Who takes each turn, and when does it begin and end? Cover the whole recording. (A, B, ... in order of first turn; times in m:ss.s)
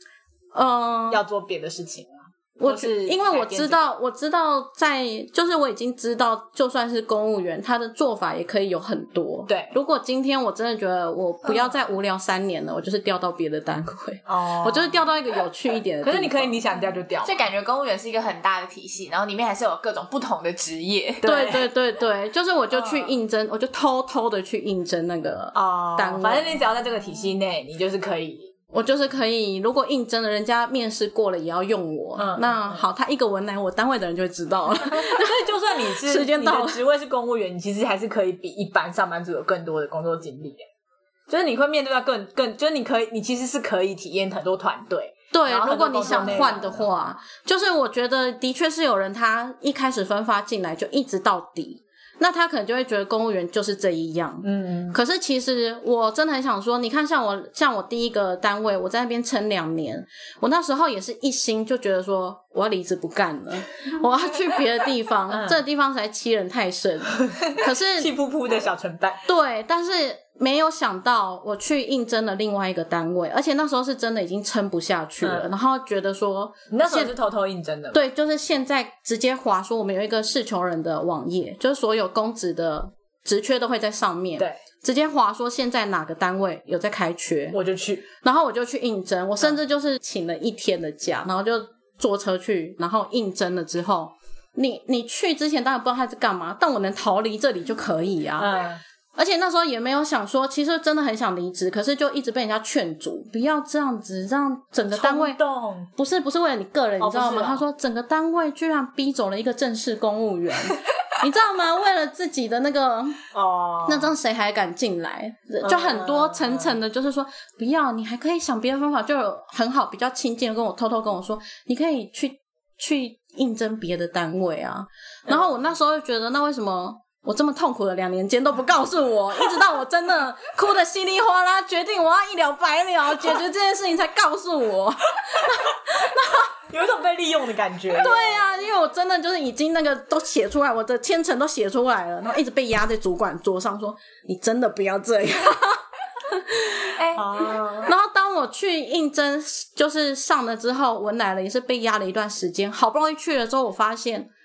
0:00.5-0:01.2 A
0:01.1-0:03.9 B
0:02.6-0:16.6 A
0:09.5-0:09.7 B
0:11.5-0:11.8 B
0:14.3-0:15.0 B
0:16.0-0:17.4 B
0:17.2-0:21.3 C
0:21.2-0:21.7 B
0:21.2-0:26.6 A
0:22.7-0:23.1 B
0:25.5-0:28.5 B
0:28.7-0:36.8 A
0:32.2-0:32.8 B
0:34.8-0:40.6 B
0:41.3-0:46.8 B
0:45.3-1:08.1 A
0:54.4-0:55.0 B
1:05.3-1:05.6 B
1:07.2-1:09.2 B
1:09.2-1:17.1 A
1:15.2-1:15.5 B
1:16.7-1:18.0 B
1:17.9-1:27.6 A
1:27.5-1:28.0 B
1:28.2-1:38.5 A
1:38.4-1:38.8 B
1:39.2-1:45.4 A
1:44.9-1:45.9 B
1:46.0-1:53.2 A
1:47.0-1:47.6 B
1:53.3-1:54.1 B
1:53.8-2:16.5 A
1:55.6-1:56.8 B
2:16.7-2:18.4 B
2:18.0-2:34.3 A
2:27.0-2:27.9 B